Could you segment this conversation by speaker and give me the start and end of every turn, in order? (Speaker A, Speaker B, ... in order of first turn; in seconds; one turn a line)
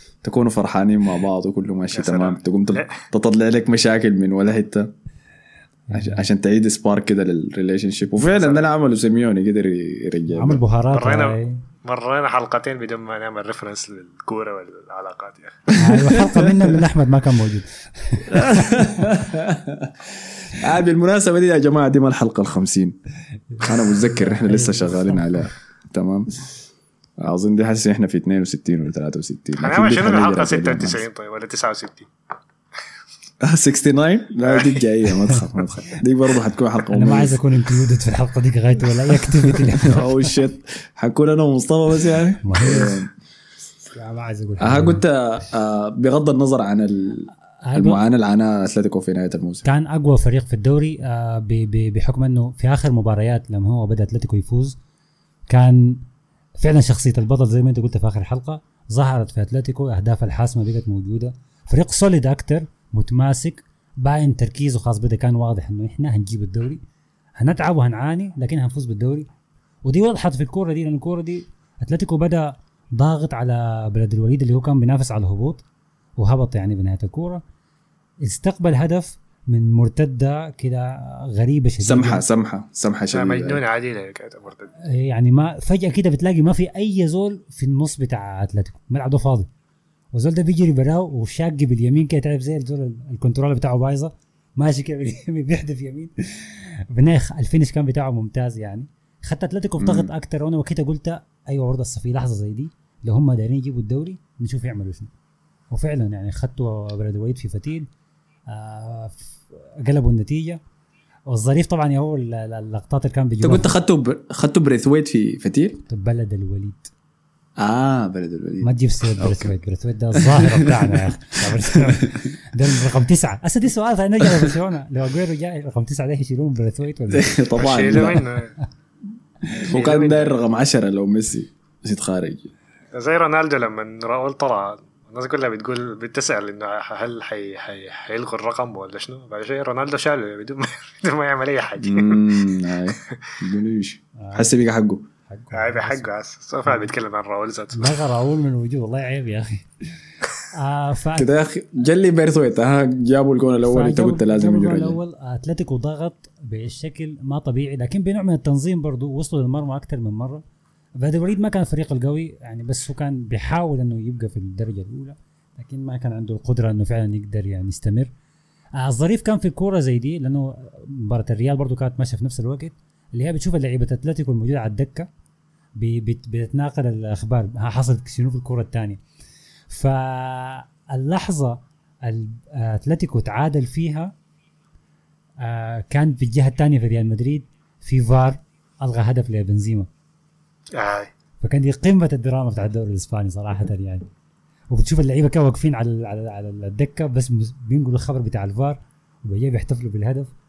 Speaker A: 0.2-4.9
Speaker B: 1.9-3.0
Speaker C: 5.9-6.2
Speaker A: 5.9-10.6
Speaker B: 8.2-8.7
Speaker C: 10.3-11.6
Speaker B: 10.9-15.6
Speaker A: 15.7-16.8
Speaker C: 15.8-19.1
Speaker A: 18.3-22.9
Speaker C: 23.5-25.5
Speaker A: 23.6-26.3
Speaker A: 27.2-31.0
Speaker B: 29.6-32.1
Speaker A: 33.4-37.4
Speaker B: 34.5-34.8
Speaker C: 36.9-40.4
Speaker A: 39.4-43.1
Speaker C: 42.4-43.0
Speaker C: 43.9-45.0
Speaker A: 44.6-49.6
Speaker C: 47.6-48.0
Speaker C: 49.6-54.8
Speaker C: 55.5-56.0
Speaker C: 56.6-66.8
Speaker C: 67.4-69.3
Speaker C: 69.8-75.6
Speaker C: 76.2-77.4
Speaker C: 78.2-82.2
Speaker A: 81.8-83.6
Speaker B: 83.1-84.7
Speaker C: 84.8-89.5
Speaker C: 90.1-105.1
Speaker A: 99.8-100.1
Speaker C: 105.7-107.9
Speaker C: 108.5-110.6
Speaker C: 111.3-113.8
Speaker A: 113.4-115.8
Speaker C: 115.9-116.9
Speaker A: 117.6-119.5
Speaker C: 118.6-127.4
Speaker A: 120.1-122.3
Speaker A: 127.1-128.2
Speaker B: 127.6-128.5
Speaker A: 129.5-132.5
Speaker B: 129.7-130.4
Speaker B: 132.9-142.3
Speaker A: 141.8-145.1
Speaker C: 144.2-144.6
Speaker C: 145.3-146.1
Speaker B: 145.5-147.9
Speaker C: 147.7-149.7
Speaker C: 150.5-151.3
Speaker A: 151.2-155.0
Speaker C: 153.6-160.4
Speaker C: 161.0-168.1
Speaker C: 168.8-175.1
Speaker C: 175.8-179.0
Speaker C: 179.7-184.1
Speaker C: 185.4-189.9
Speaker B: 190.7-191.1
Speaker C: 191.4-194.0
Speaker C: 194.7-200.3